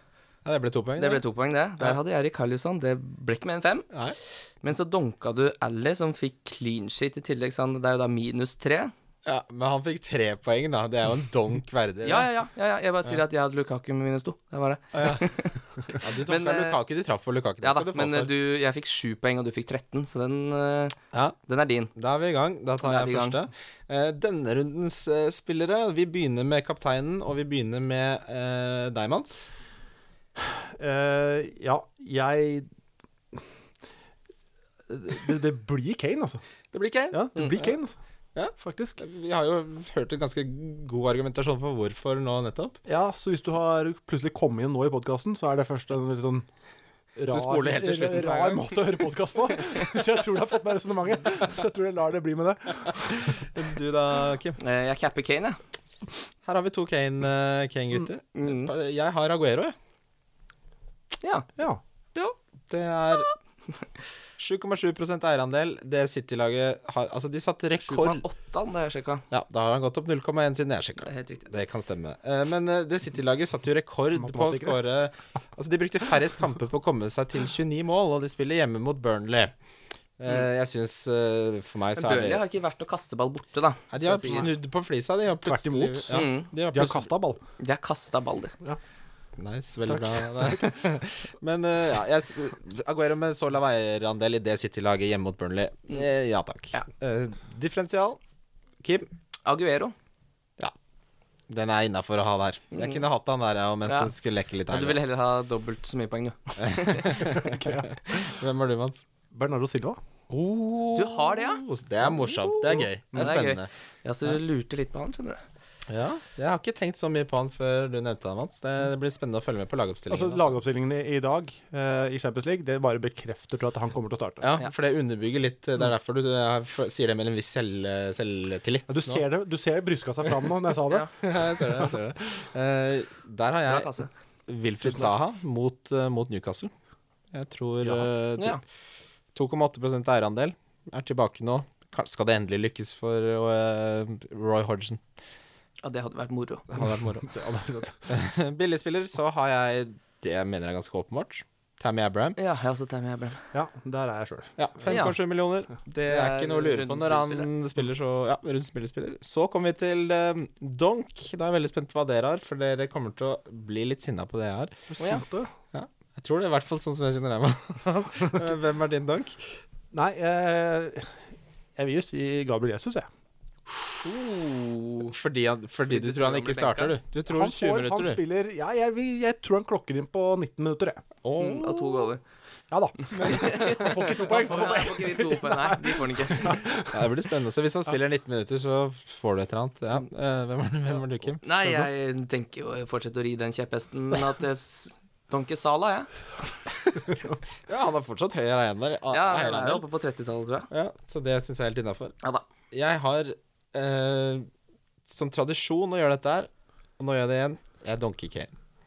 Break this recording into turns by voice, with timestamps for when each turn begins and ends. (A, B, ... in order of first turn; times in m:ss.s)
0:00.4-0:01.2 A
0:01.0-0:03.9 B
0:03.9-0:04.2 A
0:04.6-0:08.9 B
0:09.2-0:12.3 A
0:12.0-0:16.8 B
0:14.9-0:15.2 A
0:16.0-0:18.3 A
0:17.6-0:21.0 B
0:21.5-0:21.9 B
0:22.0-0:29.5 A
0:22.8-0:23.4 B
0:30.4-0:32.7 C
0:34.9-0:36.4 C
0:36.7-0:37.7 A
0:37.1-0:38.0 C
0:38.3-0:42.8 A
0:38.6-0:39.0 C
0:42.9-0:46.4 C
0:47.2-0:53.5 C
0:47.3-0:49.1 A
0:53.2-0:54.6 A
0:54.6-0:55.6 B
0:56.4-0:59.7 A
0:58.3-0:58.7 B
1:01.2-1:01.5 B
1:02.1-1:03.3 A
1:04.4-1:08.2 A
1:07.8-1:09.2 B
1:09.3-1:19.5 A
1:11.0-1:11.5 B
1:14.1-1:14.8 C
1:20.2-1:22.4 A
1:22.0-1:24.5 B
1:23.9-1:27.1 A
1:24.3-1:24.5 C
1:25.4-1:27.4 C
1:26.1-1:26.5 B
1:27.6-1:28.5 B
1:29.4-1:38.2 A
1:29.9-1:30.8 C
1:38.8-1:39.1 A
1:39.4-1:39.9 B
1:41.5-1:45.0 A
1:42.7-1:43.0 B
1:44.7-1:47.4 B
1:46.6-1:49.0 A
1:47.6-1:47.9 C
1:49.3-1:50.0 C
1:50.3-1:53.7 A
1:50.9-1:51.6 B
1:52.2-1:55.4 B
1:55.9-2:00.6 A
2:00.1-2:04.5 C
2:04.4-2:09.2 A
2:08.9-2:11.1 C
2:11.2-2:13.9 A
2:13.7-2:14.1 B
2:14.5-2:16.7 A
2:17.3-2:18.6 A
2:19.3-2:25.0 A
2:25.8-2:26.7 B
2:26.7-2:27.4 A
2:27.3-2:28.1 C
2:28.1-2:32.4 A
2:32.4-2:33.4 B
2:33.5-2:34.6 C
2:34.6-2:44.8 A
2:34.9-2:35.2 B
2:36.1-2:37.5 B
2:44.9-2:45.5 C
2:45.7-2:49.6 A
2:49.9-2:51.1 C
2:51.8-2:53.1 C
2:54.0-2:55.1 B
2:55.1-2:58.2 A
2:55.9-2:57.0 B
2:57.3-3:01.0 C
3:01.2-3:02.1 A
3:01.4-3:02.2 B
3:02.7-3:07.0 C
3:03.2-3:04.1 A
3:03.2-3:06.6 B
3:06.9-3:11.4 A
3:11.4-3:16.1 B
3:17.7-3:19.8 A
3:19.1-3:20.7 B
3:20.7-3:22.1 A
3:22.7-3:24.5 A
3:25.0-3:28.5 A